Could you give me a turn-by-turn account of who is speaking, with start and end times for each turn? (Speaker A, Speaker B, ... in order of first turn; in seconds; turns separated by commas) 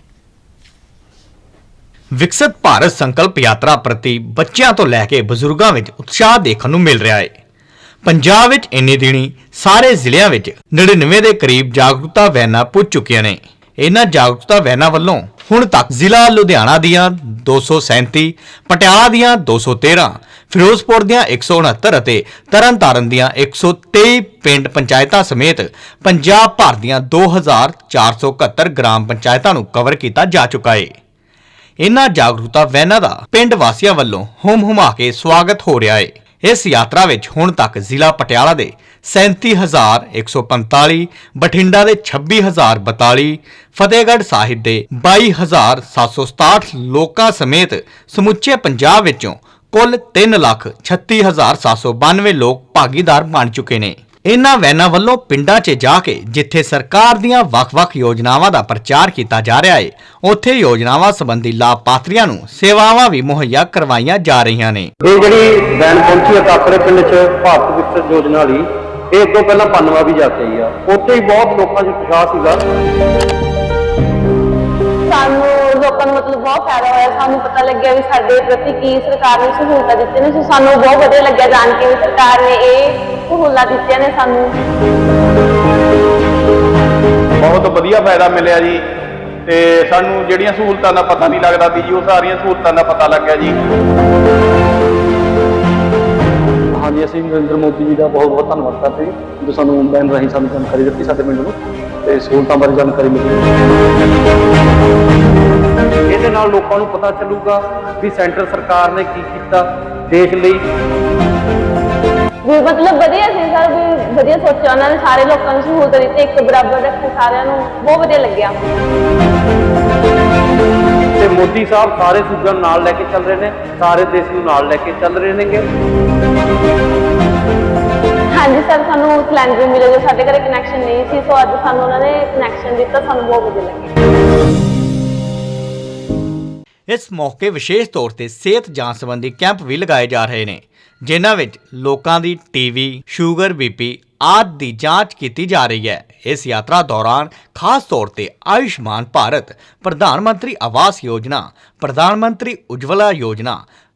Speaker A: 2.2-7.3, Speaker A: 8.1-30.9, Speaker A: 31.8-64.9, Speaker B: 65.0-72.6, Speaker C: 75.1-84.6, Speaker D: 87.4-88.8, Speaker D: 89.5-93.6, Speaker B: 96.7-103.5, Speaker B: 106.1-110.6, Speaker C: 112.5-118.5, Speaker B: 121.2-125.7, Speaker C: 128.3-133.9, Speaker A: 136.9-153.6